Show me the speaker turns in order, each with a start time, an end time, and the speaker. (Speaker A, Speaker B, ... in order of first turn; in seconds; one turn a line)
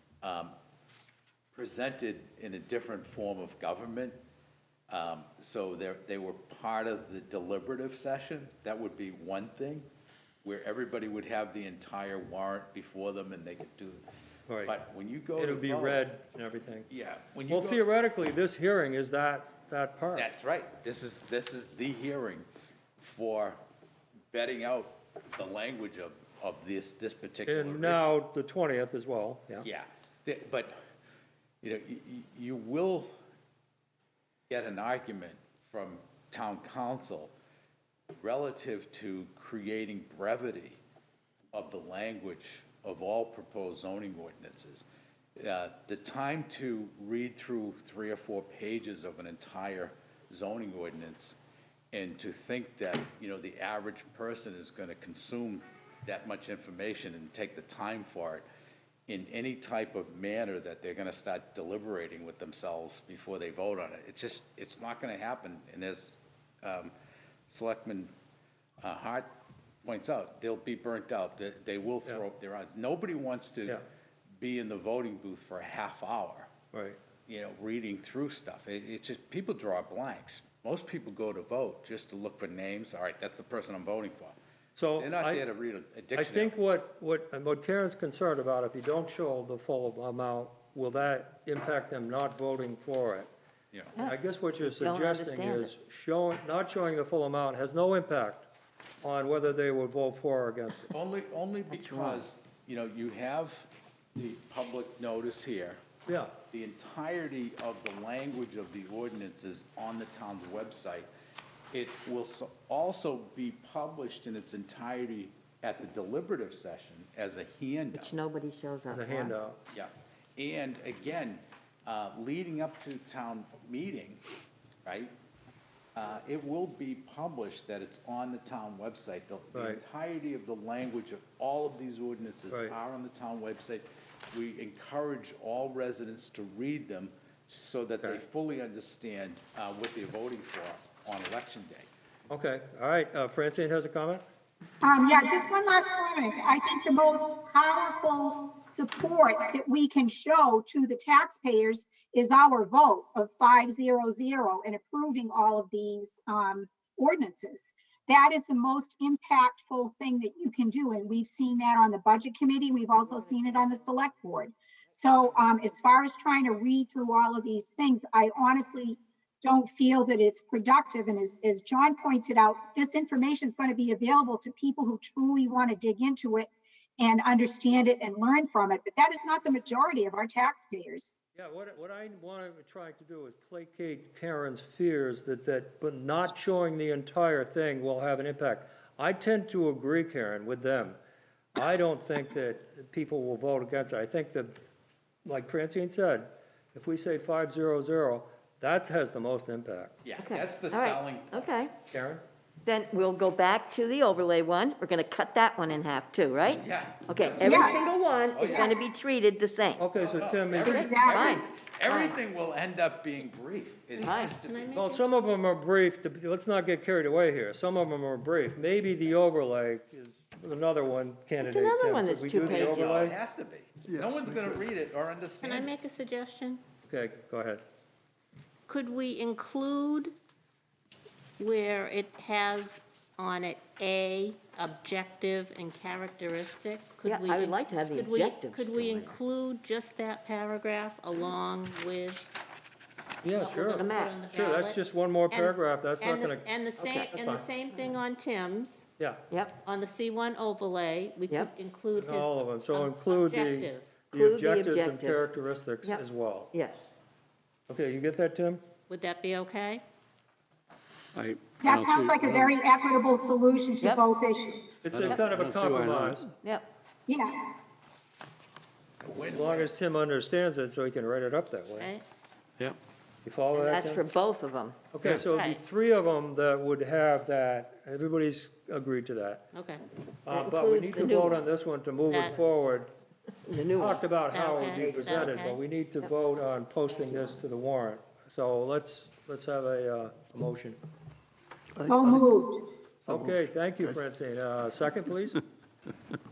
Speaker A: 0.2-0.5
Speaker A: 1.5-4.2
Speaker A: 4.9-9.8
Speaker A: 10.4-14.0
Speaker B: 14.5-14.7
Speaker A: 14.6-16.1
Speaker B: 15.4-16.9
Speaker A: 16.9-17.8
Speaker B: 17.5-20.3
Speaker A: 20.1-22.5
Speaker A: 23.0-23.6
Speaker A: 24.3-28.1
Speaker B: 27.5-29.6
Speaker A: 29.6-30.8
Speaker A: 31.6-33.1
Speaker A: 34.5-37.3
Speaker A: 38.2-40.8
Speaker A: 41.5-44.8
Speaker A: 45.4-51.4
Speaker A: 51.9-58.5
Speaker A: 59.1-66.9
Speaker A: 67.5-68.1
Speaker A: 68.8-69.3
Speaker A: 69.8-73.8
Speaker A: 74.4-76.5
Speaker B: 76.7-77.0
Speaker A: 77.2-84.4
Speaker B: 84.8-85.4
Speaker A: 85.0-86.5
Speaker B: 86.1-93.3
Speaker A: 93.7-94.0
Speaker C: 94.0-95.7
Speaker B: 94.0-98.5
Speaker B: 99.0-100.9
Speaker A: 100.9-105.8
Speaker C: 101.7-102.2
Speaker B: 106.1-106.3
Speaker A: 106.5-111.1
Speaker A: 111.7-118.2
Speaker C: 117.9-119.4
Speaker B: 118.9-119.6
Speaker A: 119.7-124.2
Speaker A: 124.8-125.1
Speaker A: 125.9-141.9
Speaker B: 129.5-129.8
Speaker B: 142.3-144.2
Speaker D: 144.8-181.2
Speaker B: 181.3-191.0
Speaker B: 191.5-194.6
Speaker B: 195.2-200.0
Speaker A: 200.0-201.6
Speaker C: 200.2-201.7
Speaker B: 201.9-202.2
Speaker C: 202.6-209.8
Speaker A: 206.5-208.7
Speaker D: 207.4-207.8
Speaker D: 208.5-208.7
Speaker B: 209.8-210.8
Speaker A: 209.9-214.8
Speaker C: 210.5-212.2
Speaker D: 210.7-211.3
Speaker C: 213.9-214.3
Speaker E: 214.4-215.0
Speaker B: 214.7-223.2
Speaker C: 221.4-222.9
Speaker A: 222.4-225.7
Speaker E: 225.4-226.6
Speaker B: 226.9-227.6
Speaker E: 228.7-230.1
Speaker E: 231.4-242.3
Speaker C: 237.0-239.2
Speaker B: 243.2-246.5
Speaker E: 243.3-248.8
Speaker C: 243.7-244.3
Speaker C: 246.8-247.2
Speaker B: 247.1-247.4
Speaker C: 249.3-249.6
Speaker E: 249.6-253.9
Speaker B: 251.9-256.5
Speaker C: 254.1-255.3
Speaker C: 255.8-256.9
Speaker B: 257.7-258.6
Speaker E: 258.9-259.8
Speaker F: 261.1-262.5
Speaker D: 261.6-264.9
Speaker B: 264.8-266.3
Speaker F: 264.9-266.3
Speaker C: 265.0-265.2
Speaker C: 266.4-266.7
Speaker D: 267.1-267.6
Speaker A: 269.0-269.7
Speaker B: 269.2-271.9
Speaker E: 271.8-272.0
Speaker B: 273.2-274.0
Speaker C: 273.5-274.9
Speaker B: 274.9-279.5
Speaker E: 275.3-275.6
Speaker E: 279.5-279.8
Speaker B: 280.2-282.9
Speaker C: 280.3-281.4
Speaker E: 282.1-282.4
Speaker C: 283.4-284.1
Speaker B: 283.8-290.8
Speaker E: 284.3-285.6
Speaker C: 284.7-285.4
Speaker C: 287.0-287.4
Speaker D: 291.8-292.7
Speaker B: 293.0-295.4